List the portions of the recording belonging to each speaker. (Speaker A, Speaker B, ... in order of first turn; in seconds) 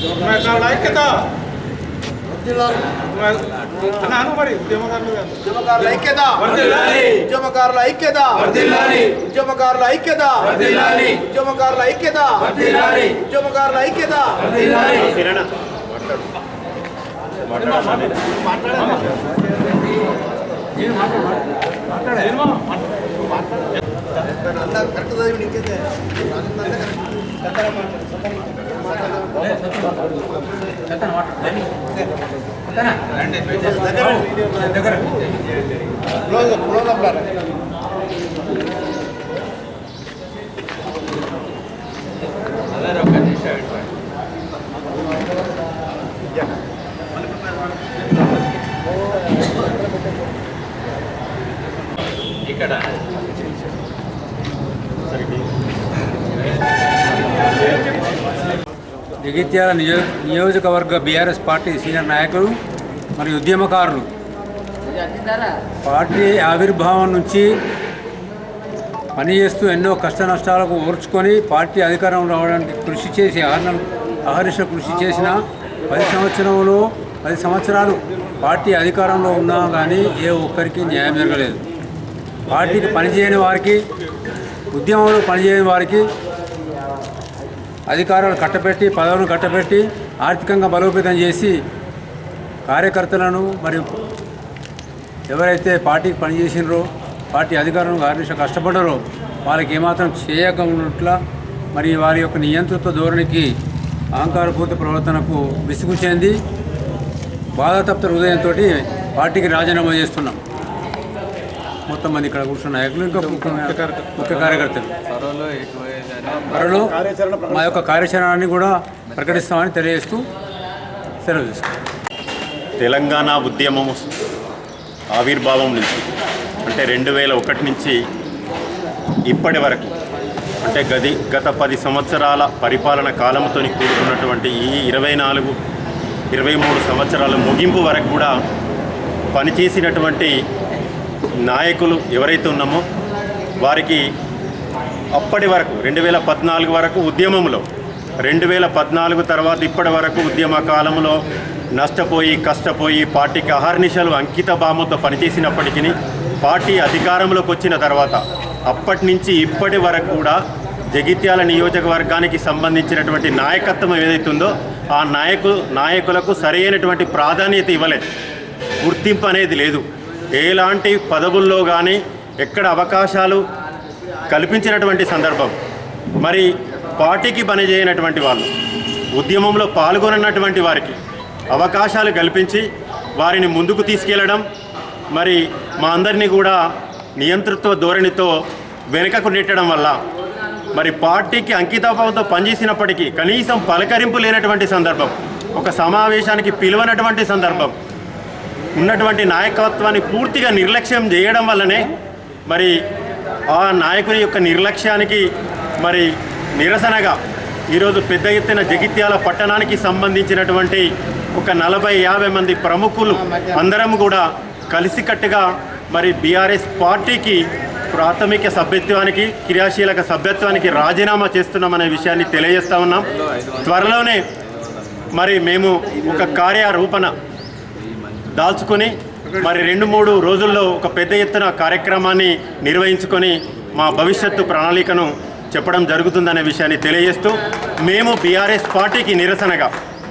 Speaker A: 4.3-5.2, 115.1-116.5
Speaker B: 5.4-12.5, 13.1-14.6, 24.6-25.8, 26.6-26.9, 36.7-37.1
Speaker C: 10.6-11.2, 12.4-13.3, 20.8-22.5, 29.4-30.0, 30.7-31.9, 32.7-35.1, 59.2-62.6, 63.2-64.1, 65.8-67.5, 69.2-81.6, 82.5-83.8, 84.7-86.1, 87.9-91.6, 92.7-94.0, 95.3-101.2, 101.7-103.5, 104.1-106.4, 107.5-110.4, 111.9-115.0, 116.4-120.2, 121.2-121.7
Speaker D: 14.8-16.4, 17.4-18.3, 55.1-55.5, 122.8-124.2, 125.1-126.1, 126.6-128.0, 129.3-129.9, 130.6-135.6, 136.3-138.3, 139.3-140.3, 141.5-142.8, 143.6-144.1, 145.2-147.6, 148.2-151.2, 151.7-168.0, 168.8-169.8, 170.3-173.4, 174.3-175.6, 176.2-178.5, 179.1-181.0, 181.5-182.7, 183.2-184.4, 185.1-186.6, 187.2-188.3, 188.9-190.0, 190.8-197.8, 198.8-201.9, 202.5-202.7, 203.5-205.2, 205.8-207.2, 207.7-224.2, 225.1-227.1, 228.3-239.7